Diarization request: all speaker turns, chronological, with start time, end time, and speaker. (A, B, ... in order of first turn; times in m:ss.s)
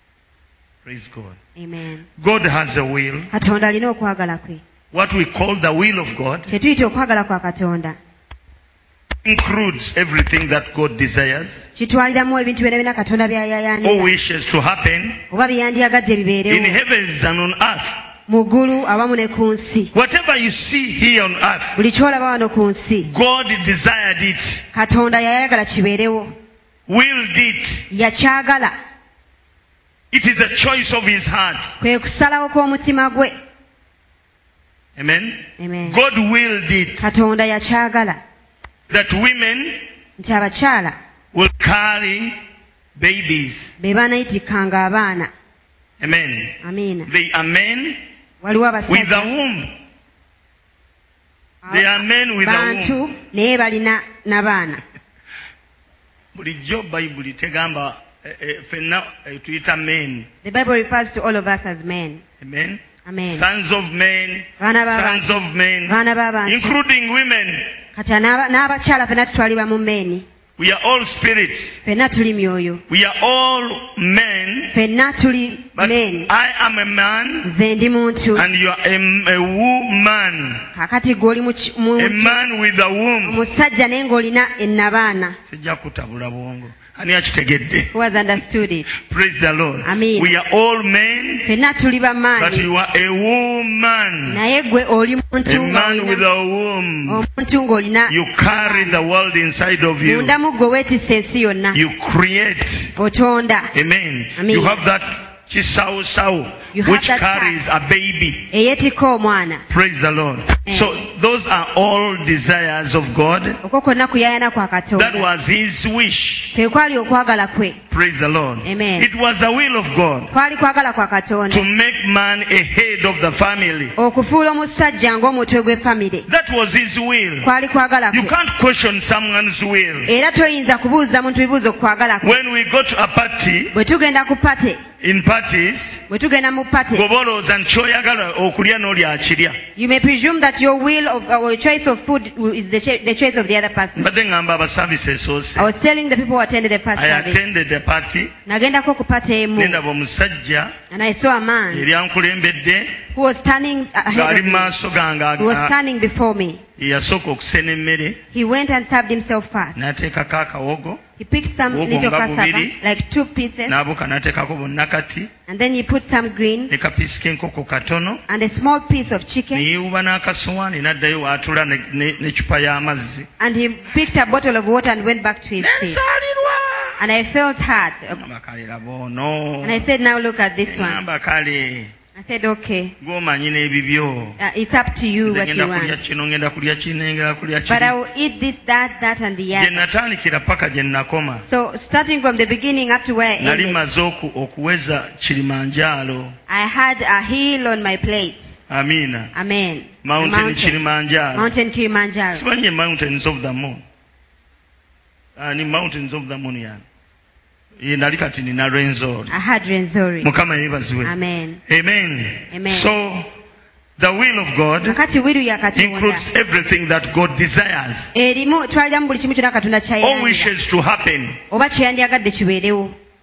0:00.8-0:01.4 A
0:01.6-0:02.1 B
0:02.2-0:03.3 A
0:03.3-0:04.6 B
0:04.9-0:06.5 A
0:06.5-0:08.0 B
0:09.2-0:11.7 A
0:11.8-0:14.1 B
0:13.8-0:15.2 A
0:15.3-0:16.8 B
0:16.5-0:18.0 A
0:18.3-0:19.9 B
0:19.9-0:21.8 A
0:21.8-0:23.1 B
0:23.0-0:24.6 A
0:24.7-0:26.3 B
0:26.9-0:27.9 A
0:27.9-0:28.7 B
0:30.1-0:31.8 A
0:31.8-0:33.3 B
0:35.0-0:37.1 A
0:35.6-0:36.0 B
0:37.0-0:38.2 B
0:38.9-0:39.8 A
0:40.2-0:40.9 B
0:41.3-0:42.4 A
0:43.0-0:43.7 A
0:43.8-0:45.3 B
0:46.0-0:46.6 A
0:46.6-0:47.1 B
0:47.1-0:48.0 A
0:48.4-0:49.3 B
0:48.9-0:49.7 A
0:51.6-0:54.8 B
0:51.7-0:53.0 A
0:56.3-1:00.3 A
1:00.4-1:02.2 B
1:02.4-1:07.7 A
1:03.0-1:03.5 B
1:04.6-1:05.3 B
1:05.9-1:06.8 B
1:07.9-1:10.2 B
1:10.6-1:11.8 A
1:11.8-1:12.8 B
1:12.9-1:14.7 A
1:14.7-1:16.3 B
1:15.8-1:17.5 A
1:17.4-1:18.5 B
1:18.3-1:20.6 A
1:20.7-1:22.4 B
1:22.0-1:23.4 A
1:23.2-1:25.4 B
1:25.5-1:27.9 A
1:27.9-1:28.9 B
1:28.9-1:31.5 A
1:29.8-1:30.3 B
1:31.4-1:32.7 B
1:32.4-1:34.4 A
1:34.3-1:36.2 B
1:35.5-1:37.2 A
1:37.1-1:39.0 B
1:38.1-1:40.4 A
1:40.0-1:41.8 B
1:41.7-1:42.9 A
1:43.0-1:43.7 B
1:43.7-1:48.5 A
1:44.4-1:44.8 B
1:46.7-1:47.6 B
1:48.5-1:49.6 B
1:49.7-1:53.6 A
1:50.7-1:50.9 B
1:53.6-1:55.2 B
1:55.0-1:56.5 A
1:56.5-1:57.8 B
1:57.9-2:00.3 A
1:58.6-1:59.1 B
2:00.3-2:01.6 B
2:01.5-2:03.9 A
2:04.0-2:06.3 B
2:06.3-2:07.5 A
2:07.4-2:08.3 B
2:08.1-2:10.1 A
2:10.0-2:12.4 B
2:12.2-2:13.7 A
2:13.7-2:14.8 B
2:15.0-2:16.0 A
2:16.1-2:17.0 B
2:16.9-2:19.6 A
2:19.8-2:24.0 B
2:24.0-2:25.7 A
2:25.6-2:27.4 B
2:26.9-2:28.3 A
2:28.5-2:29.8 B
2:29.6-2:30.8 A
2:30.9-2:31.9 B
2:31.7-2:33.0 A
2:33.1-2:34.7 B
2:34.1-2:35.8 A
2:35.4-2:36.6 B
2:36.8-2:38.2 A
2:38.3-2:39.8 B
2:39.8-2:41.0 A
2:41.2-2:43.8 B
2:41.7-2:42.8 A
2:43.7-2:45.3 A
2:45.5-2:46.7 B
2:46.7-2:48.2 A
2:48.3-2:49.6 B
2:49.5-2:53.3 A
2:53.4-2:56.0 B
2:55.6-2:57.0 A
2:57.0-2:58.2 B
2:58.1-2:59.9 A
2:59.6-3:01.0 B
3:00.6-3:01.9 A
3:02.1-3:02.9 B
3:03.0-3:04.4 A
3:04.4-3:06.0 B
3:05.2-3:07.9 A
3:07.7-3:09.9 B
3:09.5-3:11.4 A
3:11.5-3:13.8 B
3:13.4-3:16.4 A
3:16.5-3:18.6 B
3:18.7-3:19.3 A
3:19.3-3:20.8 B
3:20.0-3:21.5 A
3:21.4-3:22.4 B
3:22.3-3:23.8 A
3:25.4-3:26.8 A
3:27.8-3:29.3 A
3:29.3-3:30.3 B
3:30.2-3:31.1 A
3:31.0-3:31.6 B
3:31.7-3:33.3 A
3:32.5-3:32.9 B
3:34.0-3:35.0 A
3:34.8-3:36.3 B
3:35.7-3:38.1 A
3:38.1-3:40.5 B
3:40.0-3:41.4 A
3:41.5-3:42.9 B